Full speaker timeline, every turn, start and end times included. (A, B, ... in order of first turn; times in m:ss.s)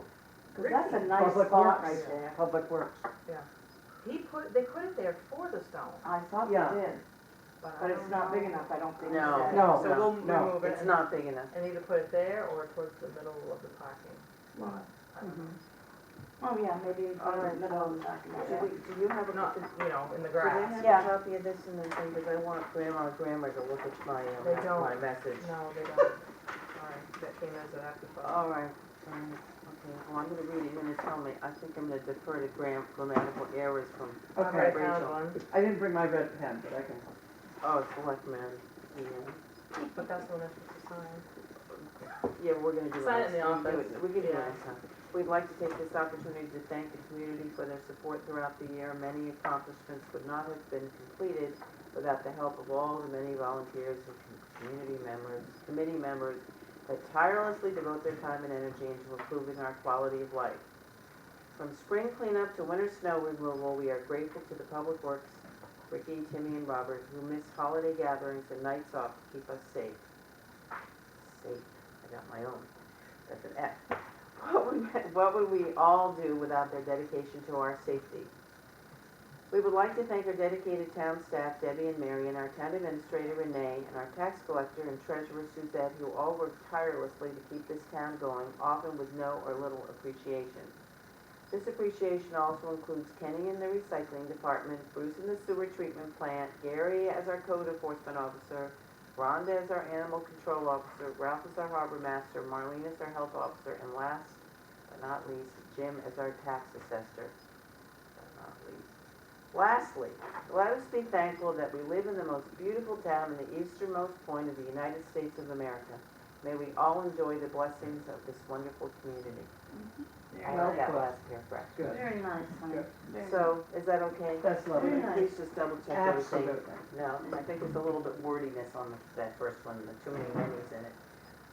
0:00.5-0:02.4 A
0:00.6-0:02.1 B
0:01.1-0:03.1 C
0:04.0-0:06.0 B
0:06.0-0:07.0 A
0:06.4-0:06.8 C
0:07.6-0:15.6 B
0:07.8-0:09.8 A
0:09.0-0:10.0 D
0:09.5-0:10.6 C
0:10.6-0:11.5 D
0:14.5-0:14.8 A
0:15.2-0:15.5 C
0:16.4-0:18.7 A
0:17.2-0:19.6 D
0:19.3-0:21.1 B
0:20.4-0:25.5 D
0:20.7-0:21.0 A
0:20.8-0:21.0 C
0:24.4-0:26.2 B
0:26.7-0:28.5 B
0:28.2-0:35.2 D
0:34.3-0:34.8 C
0:34.4-0:35.4 B
0:35.5-0:37.1 C
0:37.6-0:39.4 D
0:39.8-0:41.2 B
0:41.7-1:00.6 D
0:42.9-0:44.6 B
1:01.6-1:10.0 D
1:11.2-1:12.7 D
1:13.3-1:18.3 D
1:19.5-1:30.7 D
1:31.5-1:47.3 D
1:48.2-1:48.9 D
1:49.5-1:59.5 D
1:59.7-2:00.9 A
2:00.4-2:01.2 C
2:00.4-2:01.8 D
2:01.8-2:02.9 C
2:01.8-2:03.6 A
2:03.2-2:11.0 D
2:04.4-2:05.4 C
2:04.7-2:05.2 A
2:05.9-2:06.8 C